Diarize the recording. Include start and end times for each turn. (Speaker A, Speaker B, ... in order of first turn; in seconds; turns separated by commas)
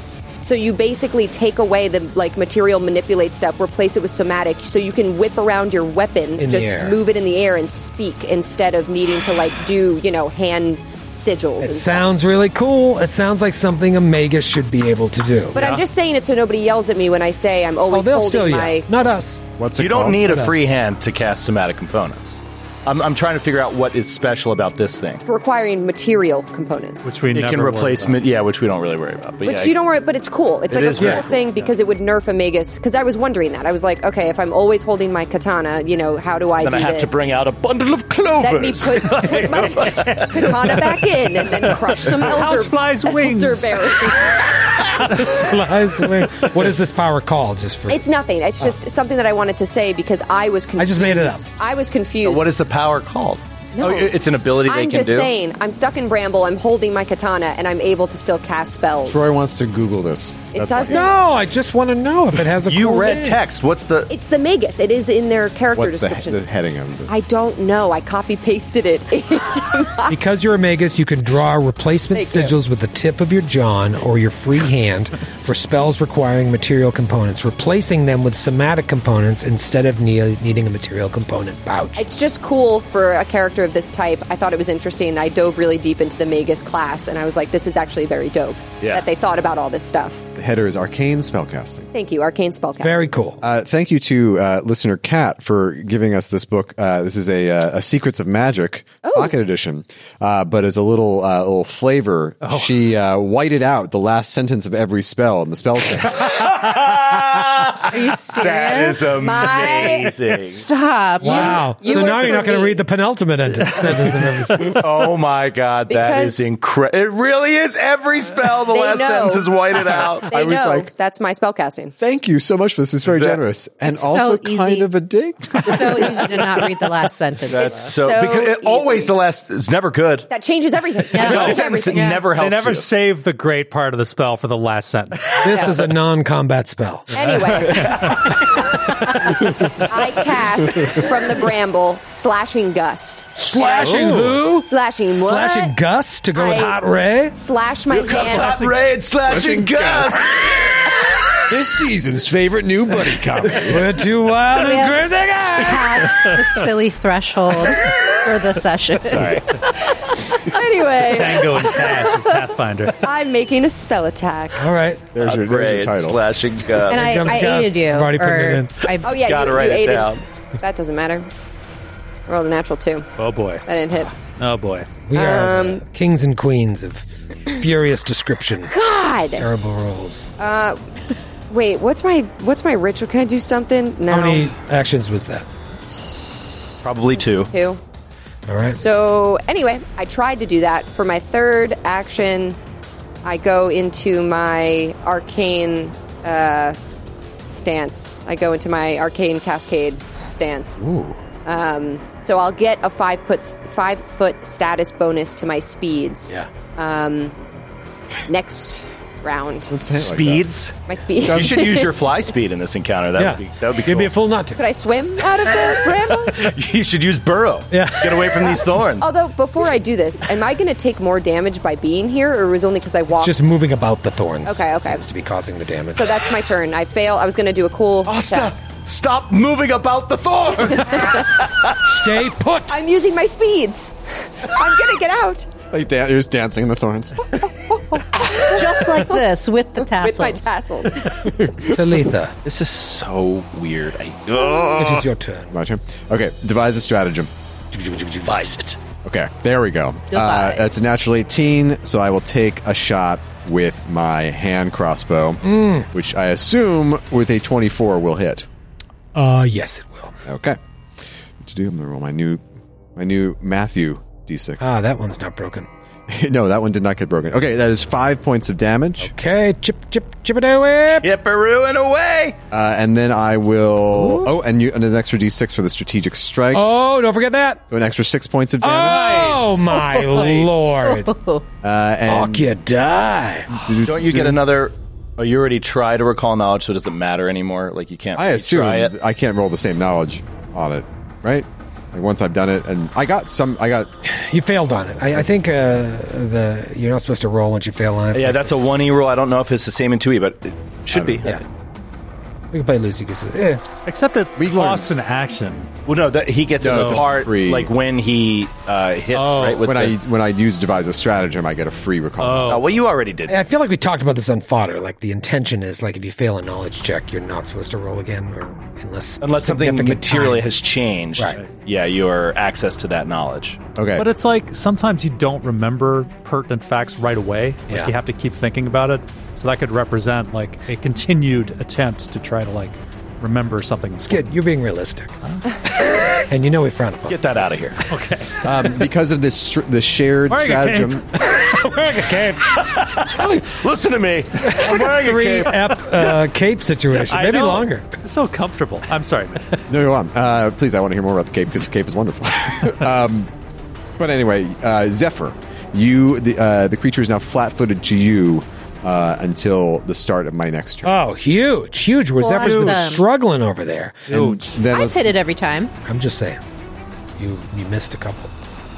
Speaker A: 0.4-12.1, Speaker B: 6.4-7.0, Speaker B: 11.6-15.6, Speaker A: 15.5-19.0, Speaker C: 15.6-15.8, Speaker B: 17.9-19.5, Speaker D: 19.6-20.2, Speaker E: 19.8-25.2, Speaker B: 20.1-20.5, Speaker A: 25.2-27.1, Speaker C: 27.0-28.2, Speaker E: 27.3-29.7, Speaker A: 29.4-37.2, Speaker E: 30.7-31.7, Speaker B: 31.0-31.2, Speaker E: 36.6-40.8, Speaker A: 38.4-44.6, Speaker C: 41.7-44.1, Speaker B: 45.0-48.0, Speaker C: 45.1-45.4, Speaker A: 47.9-52.5, Speaker B: 50.8-51.4, Speaker E: 52.2-55.3, Speaker A: 53.7-59.3, Speaker D: 59.0-61.0, Speaker A: 60.5-61.3, Speaker B: 60.9-63.4, Speaker E: 62.6-64.1, Speaker A: 64.1-66.4, Speaker D: 65.7-67.1, Speaker A: 67.1-70.2, Speaker B: 70.1-82.0, Speaker A: 72.1-72.5, Speaker A: 82.0-90.2, Speaker E: 88.8-89.0, Speaker D: 90.3-91.9, Speaker A: 91.9-93.1, Speaker B: 92.8-93.4, Speaker D: 93.4-106.2, Speaker A: 99.0-99.4, Speaker C: 102.4-102.7, Speaker E: 106.1-110.7, Speaker F: 107.9-109.4, Speaker A: 109.2-110.1, Speaker F: 110.3-111.7, Speaker B: 111.2-114.8, Speaker A: 111.2-112.8, Speaker E: 114.6-120.3, Speaker A: 115.9-116.5, Speaker A: 118.7-121.9, Speaker D: 120.3-120.9, Speaker D: 122.0-126.2, Speaker E: 123.1-123.4, Speaker F: 123.8-124.9, Speaker F: 125.5-128.0, Speaker E: 127.5-130.3, Speaker A: 127.6-129.1, Speaker A: 130.3-132.3, Speaker F: 131.1-132.3, Speaker E: 131.1-132.9, Speaker C: 132.3-135.7, Speaker B: 135.4-137.2, Speaker A: 137.1-145.7, Speaker C: 137.2-138.3, Speaker B: 143.4-147.3, Speaker C: 143.9-144.4, Speaker A: 146.3-146.8, Speaker A: 147.3-148.6, Speaker E: 147.9-150.5, Speaker C: 148.2-148.8, Speaker D: 149.2-150.2, Speaker D: 151.5-153.9, Speaker B: 153.6-156.1, Speaker F: 154.6-159.4, Speaker E: 159.0-159.5, Speaker A: 160.4-162.2, Speaker C: 161.0-163.0, Speaker A: 163.0-164.7, Speaker B: 164.6-165.1, Speaker D: 165.1-166.2, Speaker E: 165.2-167.5, Speaker B: 166.8-168.9, Speaker F: 166.8-169.1, Speaker A: 169.0-171.3, Speaker E: 169.1-170.2, Speaker A: 172.3-173.1, Speaker C: 173.2-173.6, Speaker A: 173.7-174.1, Speaker C: 174.4-174.9, Speaker B: 175.1-178.7, Speaker A: 175.1-175.8, Speaker A: 178.7-179.5, Speaker B: 179.3-180.3, Speaker A: 180.4-180.8, Speaker A: 181.5-184.5, Speaker B: 184.1-185.5, Speaker E: 186.8-187.5, Speaker A: 187.2-187.8, Speaker B: 188.5-188.8, Speaker A: 188.6-192.6, Speaker A: 193.2-196.8, Speaker A: 197.5-200.8, Speaker B: 200.8-201.2, Speaker A: 201.4-207.3, Speaker A: 208.3-209.7, Speaker D: 209.7-210.4, Speaker E: 209.9-210.7, Speaker A: 210.9-211.9, Speaker D: 211.2-211.7, Speaker E: 211.3-214.1, Speaker B: 213.2-214.6, Speaker A: 214.6-216.5, Speaker E: 216.3-219.1, Speaker B: 217.7-218.6, Speaker A: 219.0-223.5, Speaker B: 223.1-226.1, Speaker A: 224.4-228.5, Speaker E: 228.1-231.8, Speaker B: 231.8-232.8, Speaker A: 232.7-235.5, Speaker D: 235.7-237.2, Speaker A: 238.3-238.8, Speaker F: 238.3-240.5, Speaker A: 239.9-241.1, Speaker D: 241.2-241.8, Speaker B: 241.7-242.3, Speaker E: 242.4-245.1, Speaker B: 244.8-245.5, Speaker D: 245.5-247.3, Speaker B: 247.7-248.3, Speaker E: 248.2-248.8, Speaker D: 249.0-258.4, Speaker F: 250.1-250.9, Speaker B: 255.4-255.9, Speaker B: 259.1-260.2, Speaker D: 260.2-260.6, Speaker D: 261.4-262.4, Speaker D: 262.9-264.6, Speaker B: 264.6-265.7, Speaker D: 266.1-269.1, Speaker B: 269.0-271.1, Speaker E: 271.0-272.4, Speaker D: 272.5-276.7, Speaker B: 273.9-274.3, Speaker B: 276.5-277.6, Speaker D: 277.7-279.6, Speaker B: 278.6-281.1, Speaker E: 278.8-279.6, Speaker F: 279.8-281.4, Speaker E: 280.1-280.7, Speaker D: 281.6-282.5, Speaker B: 282.1-283.5, Speaker D: 283.5-284.4, Speaker E: 283.9-288.9, Speaker D: 288.1-293.9, Speaker B: 294.0-298.8, Speaker E: 298.1-301.3, Speaker D: 300.9-301.3, Speaker B: 302.5-303.6, Speaker C: 303.9-305.7, Speaker D: 304.4-304.8, Speaker E: 305.9-309.9, Speaker D: 306.6-307.7, Speaker C: 306.6-307.1, Speaker C: 309.1-309.7, Speaker D: 309.6-312.6, Speaker C: 312.2-312.7, Speaker E: 312.5-313.4, Speaker B: 313.3-320.5, Speaker E: 319.2-323.6, Speaker D: 323.8-324.1, Speaker C: 323.9-334.2, Speaker B: 334.0-335.1, Speaker B: 335.7-337.2, Speaker E: 337.1-337.8, Speaker C: 337.9-338.8, Speaker D: 338.4-341.1, Speaker C: 340.3-342.2, Speaker B: 341.3-342.4, Speaker E: 342.6-346.1, Speaker B: 343.0-343.5, Speaker B: 344.4-347.9, Speaker C: 347.0-349.6, Speaker D: 349.7-353.3, Speaker D: 354.0-360.9, Speaker B: 360.8-364.2, Speaker F: 362.2-363.0, Speaker C: 362.3-362.9, Speaker C: 364.1-364.6, Speaker D: 364.2-365.1, Speaker F: 364.7-365.7, Speaker B: 365.8-366.4, Speaker B: 367.2-368.3